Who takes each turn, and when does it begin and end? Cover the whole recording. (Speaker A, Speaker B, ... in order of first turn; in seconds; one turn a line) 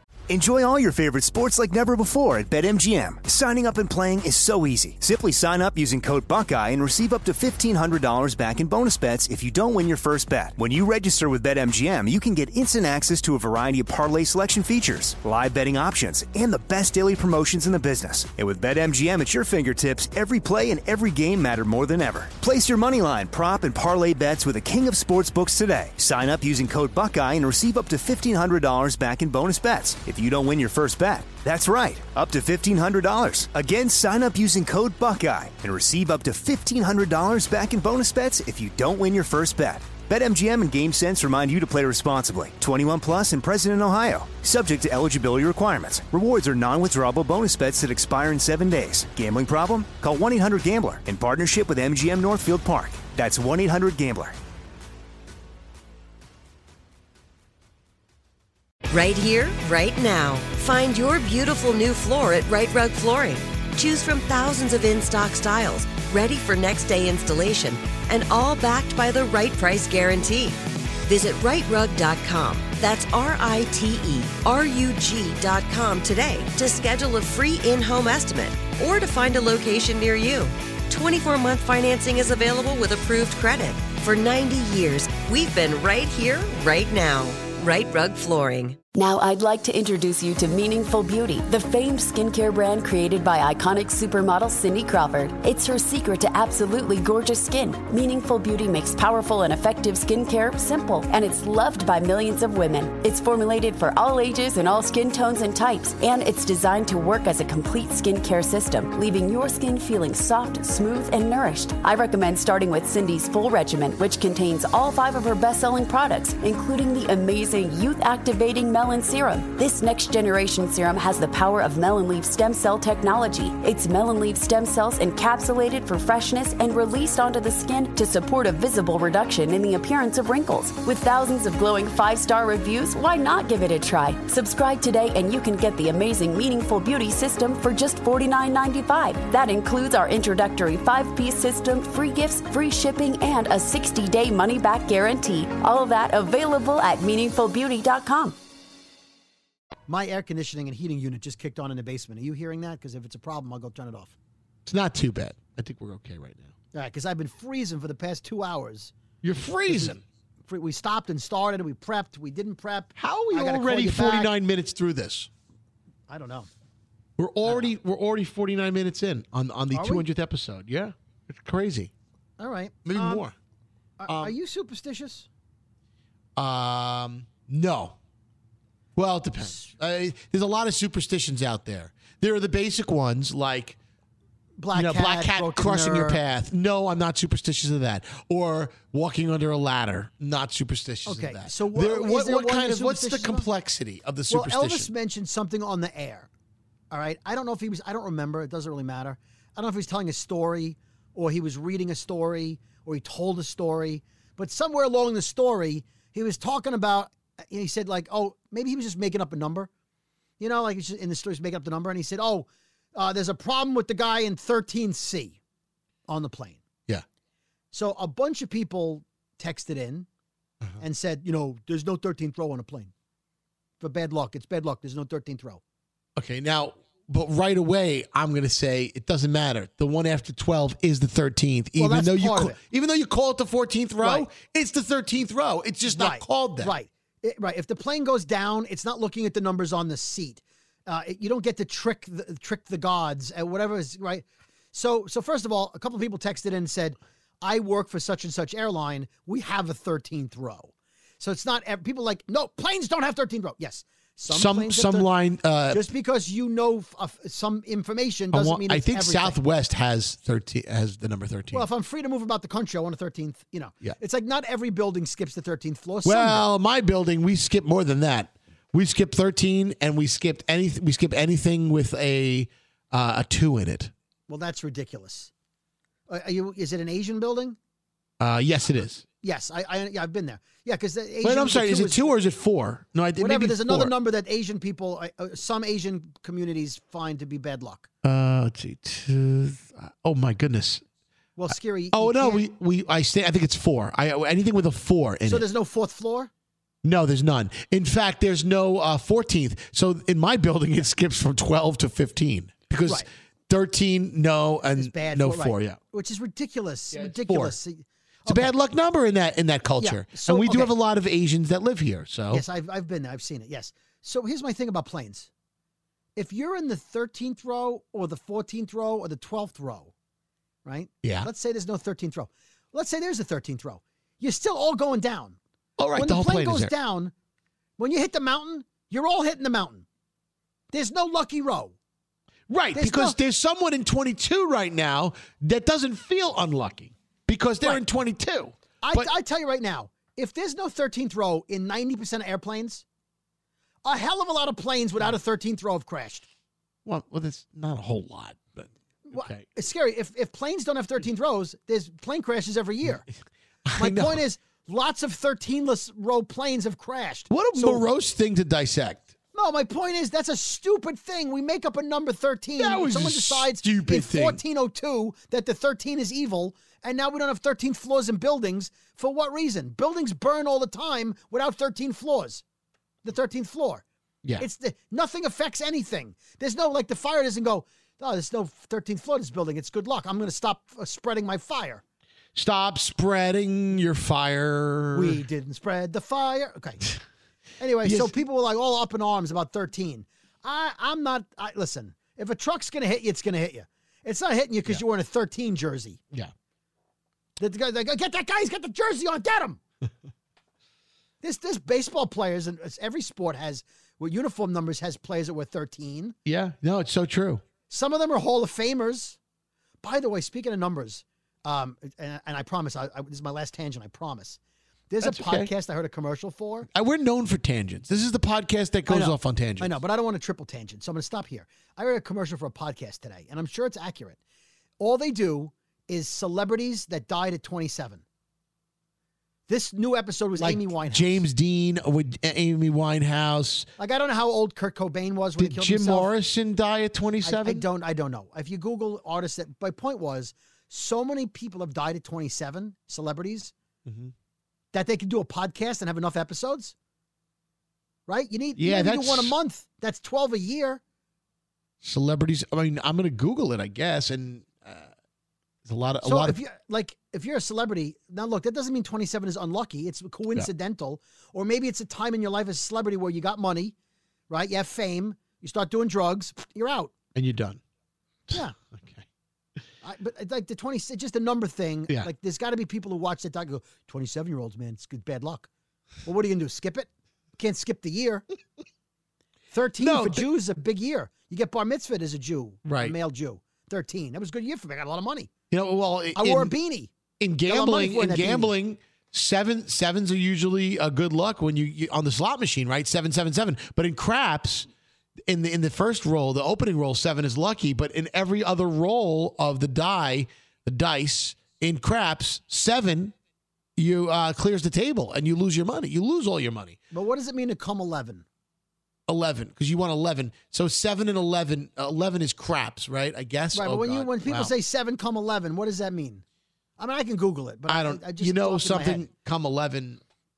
Speaker A: 0.3-54.3
Speaker B: 58.9-88.8
Speaker C: 88.9-148.4
Speaker D: 149.9-154.1
Speaker E: 154.7-156.5
Speaker D: 156.7-158.9
Speaker E: 159.2-160.0
Speaker D: 159.7-159.9
Speaker D: 160.5-164.3
Speaker E: 162.9-165.3
Speaker D: 166.1-166.5
Speaker E: 167.2-171.9
Speaker D: 167.4-167.7
Speaker D: 169.7-170.0
Speaker D: 172.4-173.2
Speaker E: 172.8-173.3
Speaker D: 174.0-175.3
Speaker E: 174.1-174.3
Speaker E: 176.3-177.9
Speaker E: 178.9-183.8
Speaker D: 179.4-179.7
Speaker D: 184.6-186.2
Speaker E: 184.7-194.9
Speaker D: 191.1-193.4
Speaker D: 194.3-196.3
Speaker D: 196.9-209.7
Speaker D: 210.4-215.4
Speaker D: 216.1-216.6
Speaker D: 217.7-220.1
Speaker D: 220.8-222.9
Speaker D: 223.8-225.6
Speaker E: 226.2-236.7
Speaker D: 231.8-232.6
Speaker D: 234.0-234.3
Speaker D: 235.9-255.1
Speaker E: 254.3-255.9
Speaker D: 255.7-259.4
Speaker E: 258.3-261.7
Speaker D: 261.5-266.4
Speaker E: 266.0-273.9
Speaker D: 274.3-275.3
Speaker D: 276.1-277.6
Speaker E: 278.2-279.0
Speaker D: 279.2-282.1
Speaker E: 281.2-283.9
Speaker D: 283.2-287.9
Speaker E: 288.0-290.8
Speaker D: 291.4-292.4
Speaker E: 291.5-295.4
Speaker D: 295.3-296.3
Speaker E: 296.8-305.8
Speaker D: 304.8-308.5
Speaker E: 306.9-307.5
Speaker E: 308.3-312.4
Speaker D: 309.8-310.7
Speaker D: 312.3-315.3
Speaker D: 316.1-319.9
Speaker D: 320.6-325.4
Speaker E: 321.0-321.3
Speaker E: 325.8-326.7
Speaker D: 325.9-327.1
Speaker D: 327.8-329.8
Speaker D: 330.7-331.7
Speaker E: 332.5-339.1
Speaker D: 332.7-333.2
Speaker D: 338.8-342.8
Speaker D: 343.8-346.3
Speaker E: 346.8-349.4
Speaker D: 349.1-353.0
Speaker E: 353.6-354.2
Speaker D: 353.8-357.8
Speaker E: 357.3-359.1
Speaker D: 359.3-372.4
Speaker E: 362.6-364.4
Speaker D: 373.0-373.8
Speaker D: 374.4-381.8
Speaker E: 382.3-385.2
Speaker D: 384.9-386.8
Speaker D: 387.6-396.0
Speaker E: 387.8-388.1
Speaker D: 397.4-399.6
Speaker D: 401.2-406.1
Speaker E: 406.2-407.4
Speaker D: 407.7-409.2
Speaker D: 409.8-416.7
Speaker E: 415.0-415.5
Speaker E: 416.7-419.7
Speaker D: 418.9-424.2
Speaker D: 424.8-428.0
Speaker D: 429.5-431.2
Speaker E: 430.4-433.7
Speaker D: 433.8-436.1
Speaker E: 435.4-437.6
Speaker D: 437.2-443.5
Speaker E: 443.9-444.1
Speaker D: 444.7-446.7
Speaker D: 448.1-450.8
Speaker E: 448.6-449.3
Speaker E: 451.8-454.9
Speaker E: 455.6-456.4
Speaker D: 456.0-463.7
Speaker D: 464.3-466.9
Speaker E: 467.1-467.6
Speaker E: 468.3-469.0
Speaker D: 469.8-475.5
Speaker D: 476.0-478.2
Speaker D: 479.5-485.3
Speaker E: 479.8-480.2
Speaker E: 482.6-482.9
Speaker E: 485.5-486.5
Speaker D: 486.1-486.9
Speaker E: 487.2-494.7
Speaker D: 487.5-488.5
Speaker E: 495.3-503.1
Speaker E: 503.8-506.8
Speaker D: 506.9-508.2
Speaker E: 509.1-514.5
Speaker D: 513.5-516.2
Speaker D: 516.8-519.0
Speaker E: 517.7-520.0